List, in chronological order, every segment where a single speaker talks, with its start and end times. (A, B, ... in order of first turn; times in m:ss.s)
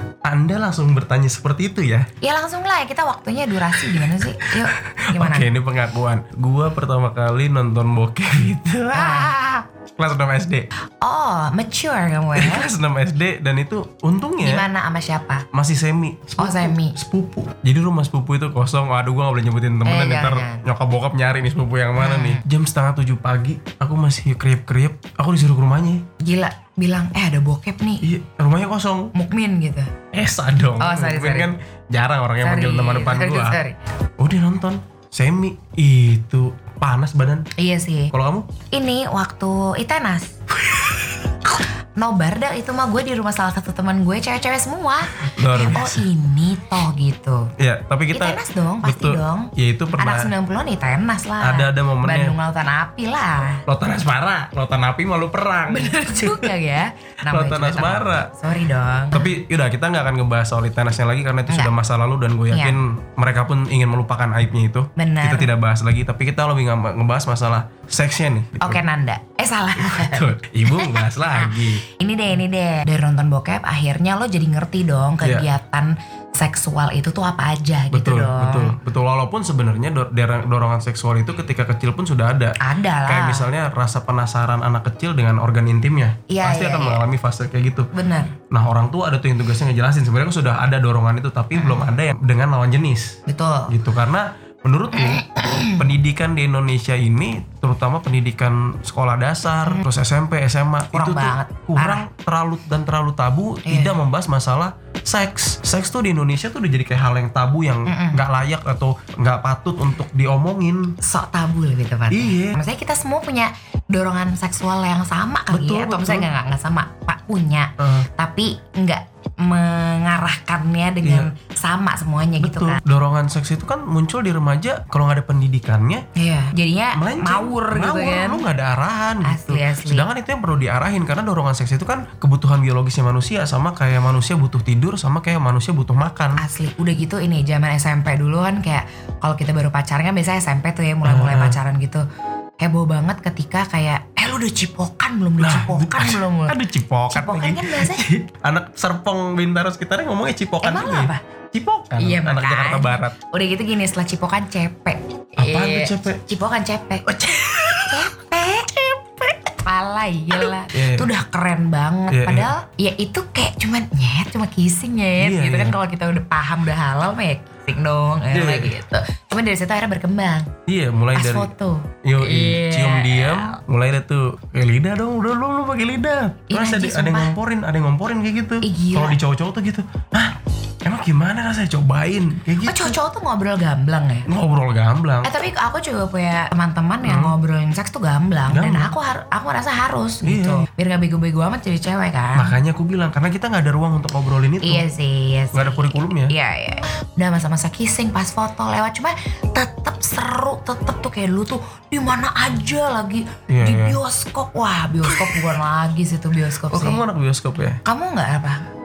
0:00.2-0:02.1 A
0:02.2-0:05.5 B
0:03.8-0:10.7 A
0:08.9-0:09.3 B
0:11.0-0:12.7 B
0:12.3-0:14.7 A
0:14.4-0:15.5 B
0:15.5-0:26.0 A
0:16.4-0:17.0 B
0:19.8-0:20.6 B
0:22.0-0:22.4 B
0:26.2-0:28.1 B
0:28.0-0:29.1 A
0:29.2-0:29.9 B
0:30.1-0:33.6 A
0:30.8-0:31.5 B
0:32.4-0:33.8 B
0:34.2-0:37.5 A
0:37.6-0:38.1 B
0:38.1-0:38.5 A
0:38.7-0:40.4 B
0:40.7-0:41.1 A
0:42.0-0:47.5 B
0:45.3-0:46.0 A
0:47.6-0:50.3 A
0:48.1-0:53.6 B
0:51.4-0:52.4 A
0:53.7-0:56.5 A
0:55.7-0:59.4 B
0:57.3-0:58.3 A
0:59.1-1:08.8 A
1:01.5-1:01.7 B
1:02.5-1:02.8 B
1:05.0-1:05.5 B
1:08.6-1:18.8 B
1:09.8-1:11.8 A
1:15.2-1:15.5 A
1:17.9-1:27.9 A
1:22.6-1:23.5 B
1:26.3-1:27.0 B
1:27.9-1:28.4 B
1:28.5-1:51.0 A
1:31.5-1:31.9 B
1:33.3-1:33.7 B
1:34.9-1:35.9 B
1:40.9-1:42.0 B
1:43.6-1:44.0 B
1:47.9-1:48.2 B
1:51.0-2:02.8 B
1:52.1-1:52.6 A
1:55.5-1:56.3 A
1:57.8-1:58.1 A
2:01.0-2:01.3 A
2:02.4-2:06.0 A
2:06.2-2:08.4 B
2:07.0-2:16.4 A
2:09.2-2:10.1 B
2:16.4-2:22.0 B
2:21.0-2:21.6 A
2:22.6-2:26.6 B
2:25.4-2:33.2 A
2:27.1-2:28.1 B
2:30.6-2:31.2 B
2:32.0-2:37.0 B
2:35.4-2:36.3 A
2:37.0-2:38.1 A
2:37.8-2:38.8 B
2:38.7-2:39.5 A
2:39.6-2:50.5 B
2:40.3-2:41.1 A
2:42.1-2:42.5 A
2:45.2-2:45.8 A
2:48.3-2:48.8 A
2:50.7-2:51.5 A
2:51.1-2:53.6 B
2:52.0-3:03.0 A
2:56.5-2:57.4 B
2:58.6-2:59.2 B
3:02.6-3:04.3 B
3:04.3-3:05.3 A
3:05.2-3:12.5 B
3:07.0-3:07.4 A
3:08.5-3:08.9 A
3:10.2-3:10.7 A
3:12.3-3:14.8 A
3:14.6-3:27.0 B
3:15.5-3:16.3 A
3:23.5-3:24.0 A
3:25.0-3:25.5 A
3:26.6-3:27.8 A
3:27.8-3:28.7 B